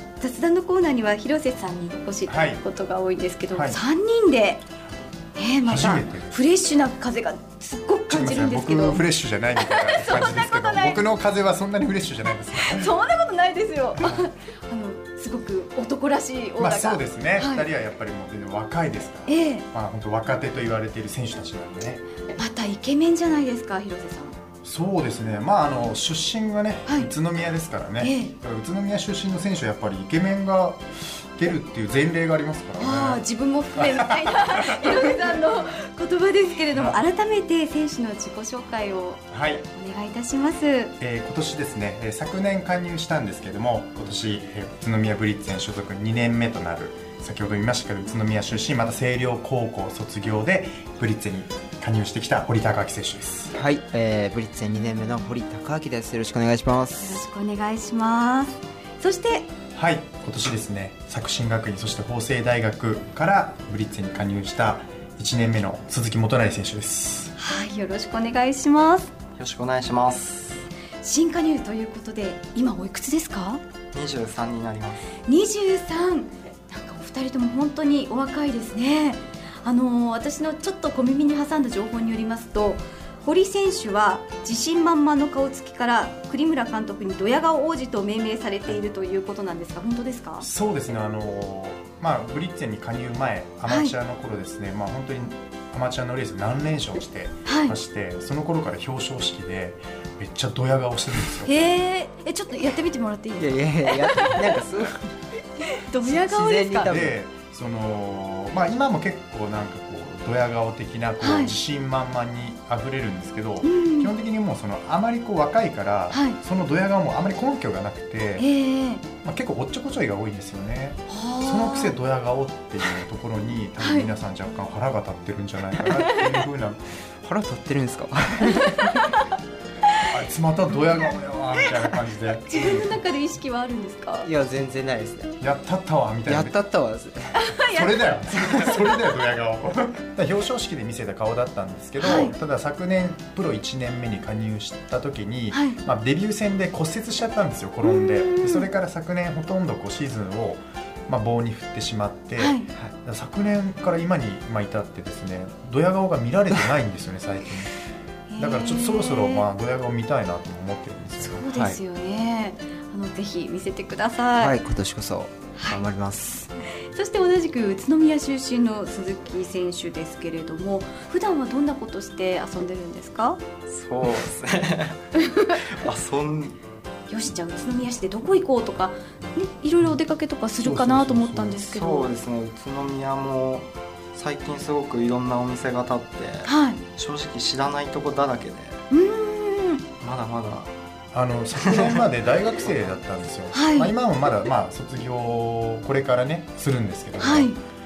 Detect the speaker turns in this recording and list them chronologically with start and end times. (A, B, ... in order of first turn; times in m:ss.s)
0:00.2-0:04.6 A
0:02.3-0:02.6 B
0:03.5-0:03.8 B
0:05.4-0:09.1 A
0:05.6-0:06.4 B
0:08.1-0:12.9 B
0:09.6-0:11.1 A
0:12.5-0:17.7 A
0:16.6-0:22.0 B
0:19.3-0:19.6 A
0:22.4-0:24.4 A
0:24.6-0:33.2 B
0:28.0-0:28.3 A
0:32.8-0:40.9 A
0:33.8-0:35.0 B
0:36.7-0:37.0 B
0:39.3-0:39.6 B
0:41.0-0:53.5 B
0:53.5-0:57.2 C
0:57.0-0:59.5 A
0:59.8-1:07.3 B
1:07.4-1:09.1 A
1:09.4-1:10.6 D
1:11.0-1:13.6 A
1:13.9-1:15.1 D
1:15.3-1:30.5 A
1:30.4-1:41.5 B
1:33.7-1:33.9 A
1:37.4-1:37.8 A
1:41.4-1:44.6 A
1:43.4-1:45.1 C
1:45.6-1:46.9 A
1:46.0-1:47.2 C
1:46.8-1:58.5 B
1:51.2-1:51.5 A
1:53.6-1:54.1 A
1:56.1-1:56.4 A
1:58.4-1:59.0 A
1:59.2-2:06.8 B
2:01.1-2:02.0 A
2:03.8-2:04.1 A
2:07.2-2:09.2 C
2:08.7-2:09.2 A
2:10.1-2:12.9 B
2:12.4-2:14.3 A
2:14.2-2:15.4 C
2:15.4-2:16.6 B
2:16.3-2:17.5 C
2:17.4-2:18.1 A
2:17.7-2:37.8 B
2:22.0-2:22.3 A
2:25.5-2:25.8 A
2:27.8-2:28.7 A
2:32.4-2:32.7 A
2:38.3-2:39.5 A
2:38.4-2:41.8 B
2:41.2-2:44.6 A
2:44.4-2:46.5 C
2:45.6-2:45.8 A
2:46.8-2:53.4 A
2:53.7-2:55.0 D
2:55.2-2:55.6 A
2:55.6-2:56.6 D
2:57.1-3:02.1 A
3:00.6-3:01.6 B
3:01.6-3:08.8 D
3:06.4-3:06.8 A
3:08.9-3:09.8 A
3:10.0-3:10.7 D
3:11.1-3:17.6 B
3:11.6-3:12.6 D
3:13.5-3:14.0 A
3:17.2-3:17.6 A